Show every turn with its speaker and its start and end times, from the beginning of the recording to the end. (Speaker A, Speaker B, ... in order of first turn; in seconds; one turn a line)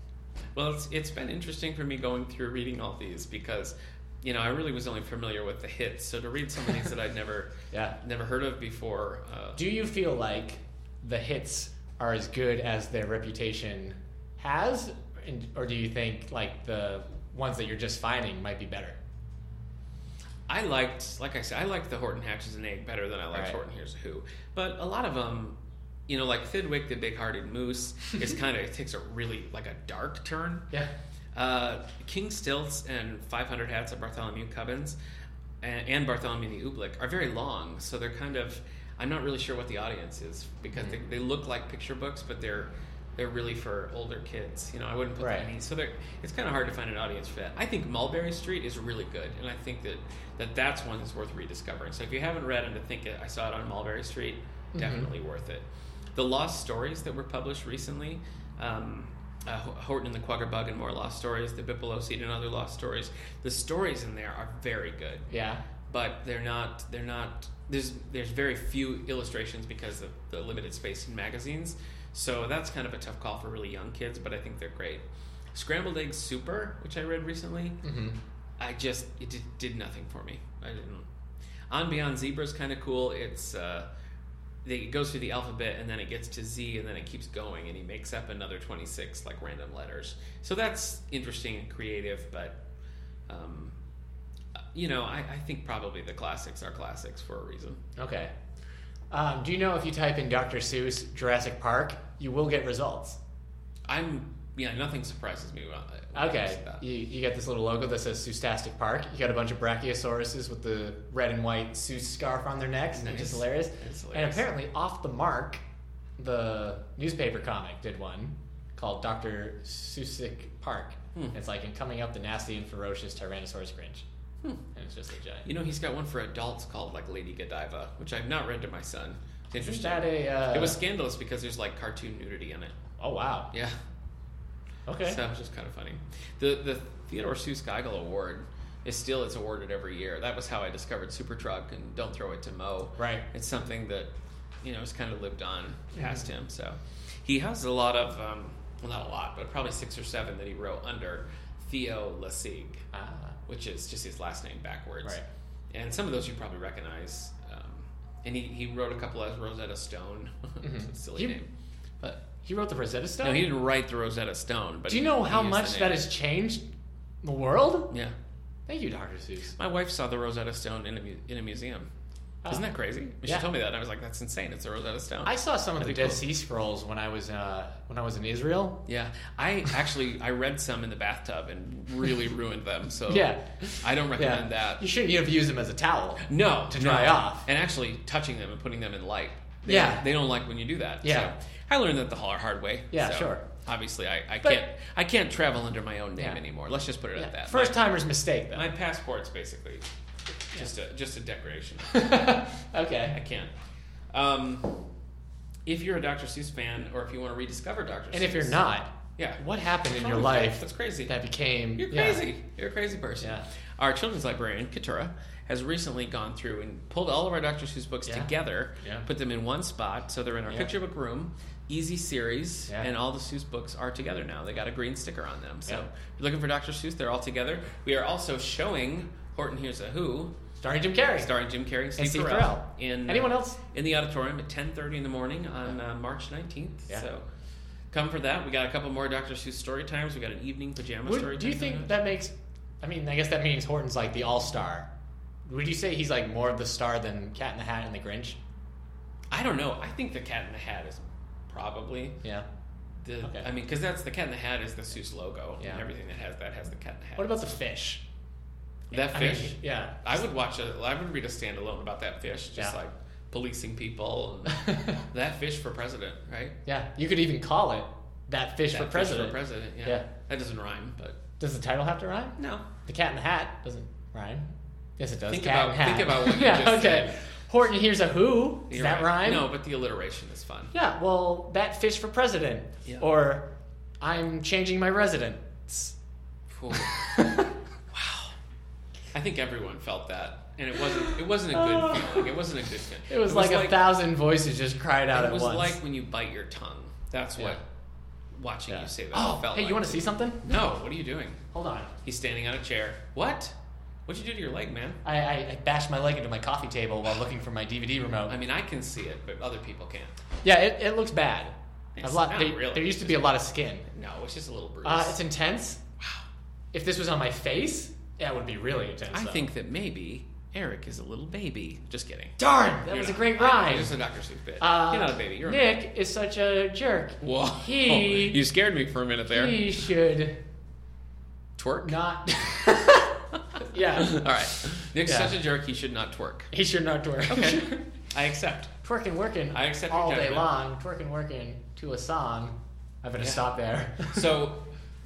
Speaker A: 0.6-9.6
Speaker B: 9.6-19.0
Speaker A: 20.5-25.6
Speaker B: 23.3-23.6
Speaker A: 26.1-30.7
Speaker A: 31.3-35.0
Speaker A: 35.6-65.3
Speaker B: 45.2-45.5
Speaker B: 54.7-55.1
Speaker B: 65.3-65.6
Speaker A: 65.9-77.8
Speaker B: 77.8-78.2
Speaker A: 78.6-81.1
Speaker A: 81.7-83.9
Speaker A: 84.6-92.6
Speaker A: 93.3-93.8
Speaker A: 94.7-97.8
Speaker B: 98.0-98.3
Speaker B: 99.1-103.2
Speaker A: 103.9-106.8
Speaker B: 106.2-115.6
Speaker A: 112.9-114.5
Speaker B: 116.2-124.0
Speaker B: 124.7-125.5
Speaker A: 125.5-132.7
Speaker B: 129.6-130.8
Speaker B: 133.0-133.5
Speaker A: 133.5-133.8
Speaker B: 134.9-135.2
Speaker A: 135.0-144.1
Speaker B: 143.0-143.2
Speaker A: 144.6-152.8
Speaker B: 145.9-146.2
Speaker B: 152.9-153.4
Speaker A: 153.5-155.2
Speaker A: 155.7-161.5
Speaker B: 160.6-161.4
Speaker B: 162.4-163.5
Speaker A: 163.2-166.0
Speaker B: 164.9-166.6
Speaker B: 167.2-167.9
Speaker A: 167.9-168.2
Speaker B: 168.7-169.6
Speaker A: 169.6-171.9
Speaker B: 172.4-172.7
Speaker A: 172.5-176.2
Speaker B: 175.2-178.8
Speaker A: 178.9-184.8
Speaker B: 183.1-187.4
Speaker A: 186.2-197.8
Speaker B: 189.6-190.1
Speaker B: 191.0-191.3
Speaker B: 192.9-193.4
Speaker B: 197.2-198.7
Speaker A: 198.5-199.8
Speaker A: 200.5-202.3
Speaker B: 201.9-203.2
Speaker A: 203.1-203.5
Speaker A: 204.1-204.9
Speaker A: 205.7-208.6
Speaker B: 208.1-212.3
Speaker A: 209.2-211.1
Speaker A: 211.8-230.3
Speaker B: 213.2-213.5
Speaker B: 230.6-231.3
Speaker A: 231.2-237.3
Speaker B: 232.0-233.6
Speaker A: 237.9-242.0
Speaker B: 241.1-244.9
Speaker B: 245.5-248.4
Speaker A: 249.3-252.2
Speaker A: 253.0-257.5
Speaker B: 253.2-253.5
Speaker B: 257.2-258.0
Speaker A: 258.9-266.6
Speaker B: 258.9-260.2
Speaker B: 264.5-265.0
Speaker B: 266.7-270.1
Speaker A: 268.7-271.2
Speaker B: 271.4-274.5
Speaker A: 272.4-272.7
Speaker B: 275.0-279.5
Speaker A: 275.3-277.2
Speaker A: 278.7-280.7
Speaker B: 280.7-283.4
Speaker B: 284.0-285.9
Speaker A: 286.5-288.4
Speaker B: 286.7-287.5
Speaker A: 289.1-293.9
Speaker B: 291.0-292.3
Speaker B: 293.1-295.8
Speaker A: 295.1-297.6
Speaker A: 298.3-301.4
Speaker B: 298.7-300.6
Speaker B: 301.5-301.9
Speaker A: 302.0-303.5
Speaker A: 304.1-305.0
Speaker B: 305.0-308.4
Speaker A: 308.3-310.2
Speaker B: 310.4-313.9
Speaker A: 311.9-315.2
Speaker B: 314.8-315.8
Speaker B: 316.7-319.5
Speaker A: 319.1-325.7
Speaker B: 322.4-323.9
Speaker B: 324.6-328.4
Speaker A: 327.2-329.6
Speaker B: 329.3-330.4
Speaker A: 331.6-332.0
Speaker B: 331.9-334.2
Speaker A: 333.5-336.5
Speaker B: 335.1-335.3
Speaker B: 336.5-337.9
Speaker A: 337.3-338.7
Speaker B: 338.8-344.3
Speaker A: 339.5-340.5
Speaker A: 343.2-343.4
Speaker A: 344.0-344.6